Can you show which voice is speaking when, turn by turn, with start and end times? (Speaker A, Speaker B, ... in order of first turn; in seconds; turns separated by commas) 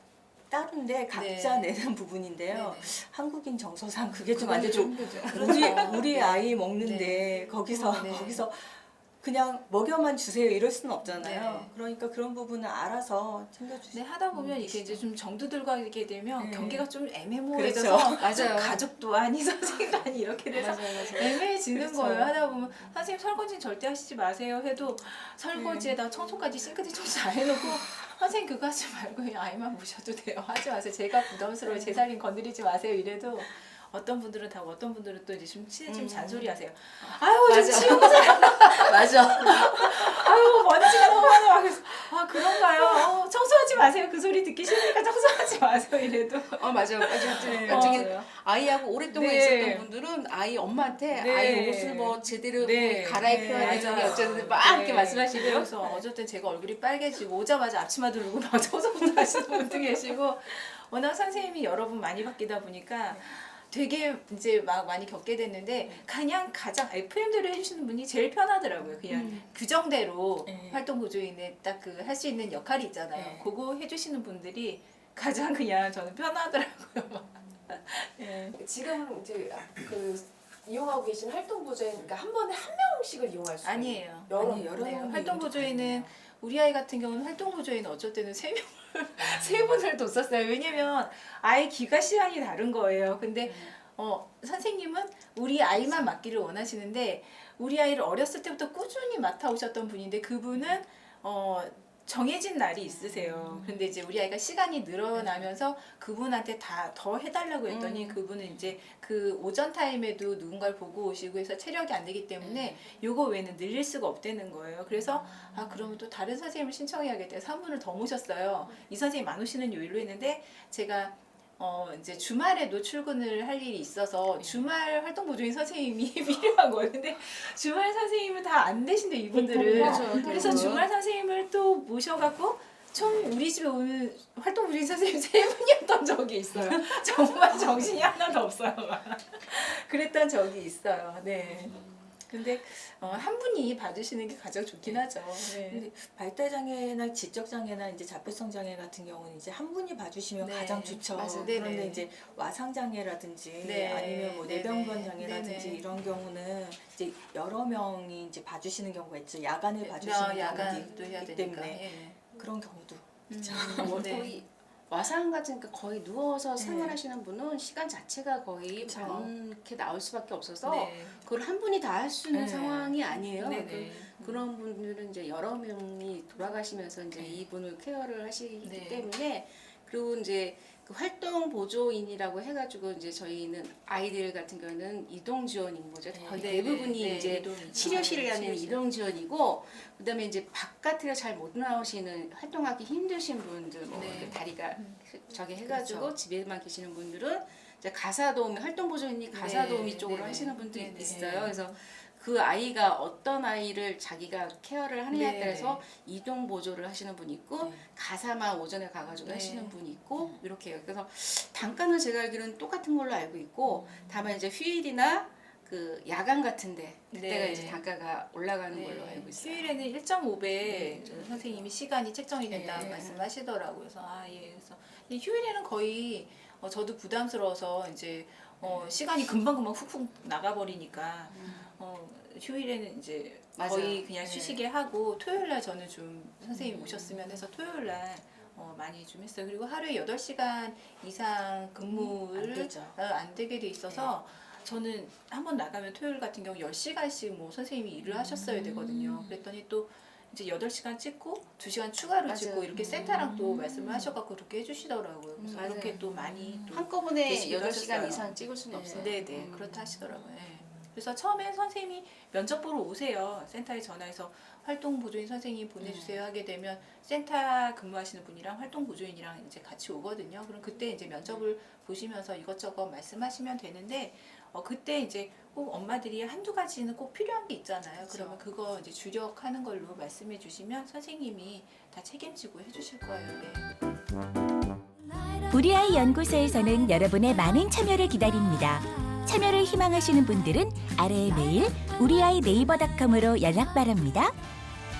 Speaker A: 0.5-15.0, Speaker B: 1.1-1.8, Speaker B: 2.5-3.0, Speaker C: 4.3-6.1, Speaker B: 5.3-8.4, Speaker B: 11.1-11.7, Speaker B: 13.9-48.3, Speaker A: 16.4-16.9, Speaker A: 17.5-18.4, Speaker C: 18.2-18.8, Speaker C: 20.6-21.4, Speaker A: 21.7-22.3, Speaker A: 25.5-25.9, Speaker A: 31.7-32.0, Speaker C: 35.9-40.5, Speaker C: 41.0-41.3, Speaker C: 46.6-55.8, Speaker A: 47.5-48.0, Speaker B: 49.1-49.9, Speaker B: 51.1-78.4, Speaker A: 53.2-54.4, Speaker A: 55.8-56.0, Speaker A: 69.1-69.4, Speaker A: 70.5-70.8, Speaker A: 73.1-73.5, Speaker A: 78.2-78.6, Speaker D: 78.5-84.5, Speaker B: 83.6-145.9, Speaker A: 84.4-86.1, Speaker C: 102.9-103.6, Speaker C: 107.7-108.2, Speaker C: 112.4-112.8, Speaker A: 115.3-115.9, Speaker A: 124.4-124.7, Speaker A: 129.3-130.7, Speaker C: 129.5-130.9, Speaker A: 144.8-164.3, Speaker B: 150.4-152.1, Speaker C: 151.1-151.6, Speaker B: 153.6-155.9, Speaker B: 159.8-162.2, Speaker B: 163.3-164.4, Speaker C: 163.8-219.8, Speaker A: 166.6-167.0, Speaker A: 168.8-169.3, Speaker B: 170.6-171.3, Speaker A: 172.3-172.9, Speaker B: 173.1-174.5, Speaker B: 178.6-179.1, Speaker A: 186.1-186.5, Speaker B: 186.3-188.8, Speaker B: 193.9-195.0, Speaker A: 194.1-194.3, Speaker B: 195.7-196.1, Speaker A: 195.7-196.1, Speaker B: 199.3-201.7, Speaker A: 201.0-201.6, Speaker B: 205.1-205.9, Speaker A: 207.6-207.8, Speaker B: 209.2-209.8, Speaker B: 213.7-214.1, Speaker B: 217.1-217.8, Speaker B: 218.7-283.7, Speaker C: 220.7-221.4, Speaker A: 222.5-223.0, Speaker C: 222.7-223.3, Speaker C: 231.3-231.7, Speaker C: 233.6-234.1, Speaker A: 234.2-234.6, Speaker A: 236.5-237.1, Speaker A: 241.8-243.0, Speaker A: 243.9-244.2, Speaker A: 248.0-249.4, Speaker C: 252.2-253.2, Speaker A: 252.7-254.2, Speaker C: 255.4-256.1, Speaker A: 255.7-256.8, Speaker C: 256.7-259.7, Speaker A: 258.7-260.8, Speaker C: 265.8-266.2, Speaker C: 278.0-278.4, Speaker E: 285.5-294.3